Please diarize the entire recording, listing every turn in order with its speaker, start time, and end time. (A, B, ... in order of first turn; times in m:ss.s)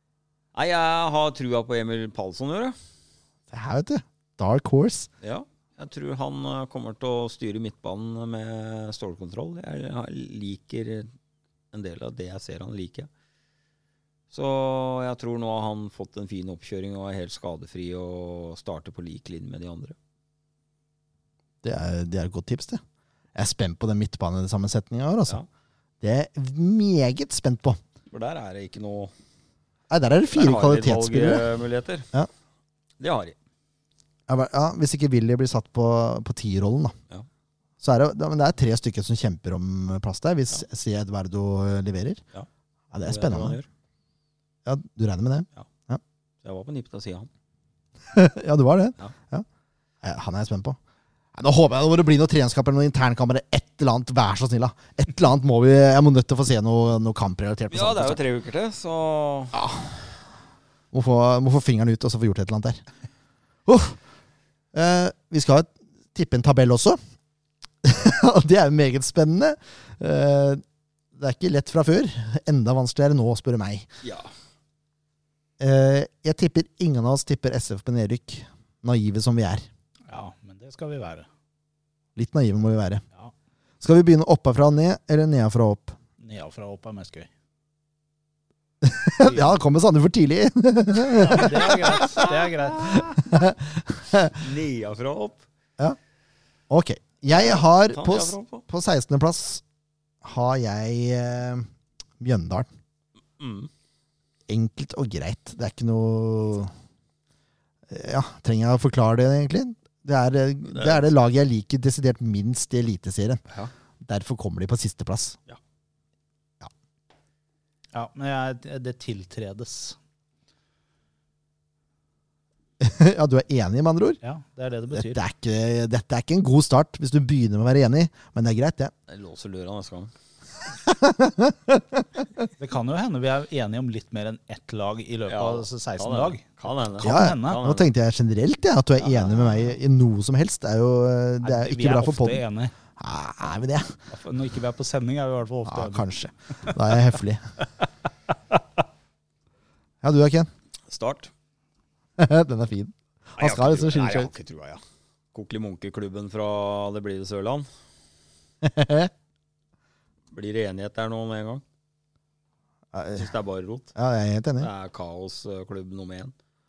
0:00.5-0:02.8 A
0:03.5-0:05.1 B
0:05.2-0:11.1 A
0:11.7-0:13.1 A
0:14.3-0:20.0 A
0:21.6-0:22.8 B
0:23.4-0:25.4 B
0:26.0-0:27.8 B
0:28.1-0:29.1 A
0:29.9-0:31.5 B
0:30.3-0:32.1 A
0:33.0-0:33.4 A
0:34.3-0:37.0 B
0:37.8-0:42.2 B
0:42.9-0:43.6 B
0:43.0-0:43.7 A
0:44.6-0:46.0 B
0:46.4-0:47.3 A
0:48.1-0:49.5 B
0:50.0-0:50.8 B
0:51.4-0:58.2 B
0:57.7-0:59.6 A
0:59.5-1:00.0 B
1:00.9-1:02.8 B
1:03.7-1:04.0 B
1:04.7-1:07.0 B
1:07.8-1:10.6 B
1:11.2-1:13.9 B
1:14.0-1:14.3 A
1:15.6-1:19.7 B
1:20.1-1:21.3 C
1:22.2-1:23.0 B
1:23.8-1:26.0 B
1:26.2-1:27.3 C
1:28.8-1:32.0 B
1:29.2-1:29.6 C
1:31.1-1:33.0 C
1:31.4-1:33.1 A
1:32.9-1:34.4 B
1:34.3-1:35.4 A
1:36.7-1:39.6 B
1:37.3-1:38.6 A
1:40.2-1:41.7 B
1:42.2-1:42.7 B
1:43.4-1:43.7 A
1:44.5-1:46.7 B
1:47.9-1:53.4 B
1:50.7-1:51.1 A
1:54.0-1:55.4 B
1:57.9-2:00.0 C
2:02.8-2:04.2 B
2:04.2-2:05.2 C
2:04.9-2:08.9 B
2:09.1-2:10.1 A
2:10.7-2:12.5 B
2:12.6-2:16.4 C
2:15.3-2:17.9 A
2:17.0-2:17.6 C
2:17.0-2:22.4 B
2:21.4-2:22.7 C
2:23.0-2:24.0 B
2:24.1-2:26.8 C
2:25.7-2:27.4 B
2:30.0-2:30.5 B
2:30.9-2:31.3 A
2:32.2-2:34.3 B
2:33.4-2:34.8 A
2:35.3-2:37.7 A
2:38.6-2:39.1 B
2:40.3-2:41.6 A
2:42.9-2:43.3 B
2:43.2-2:43.9 A
2:44.0-2:44.7 B
2:44.6-2:46.3 A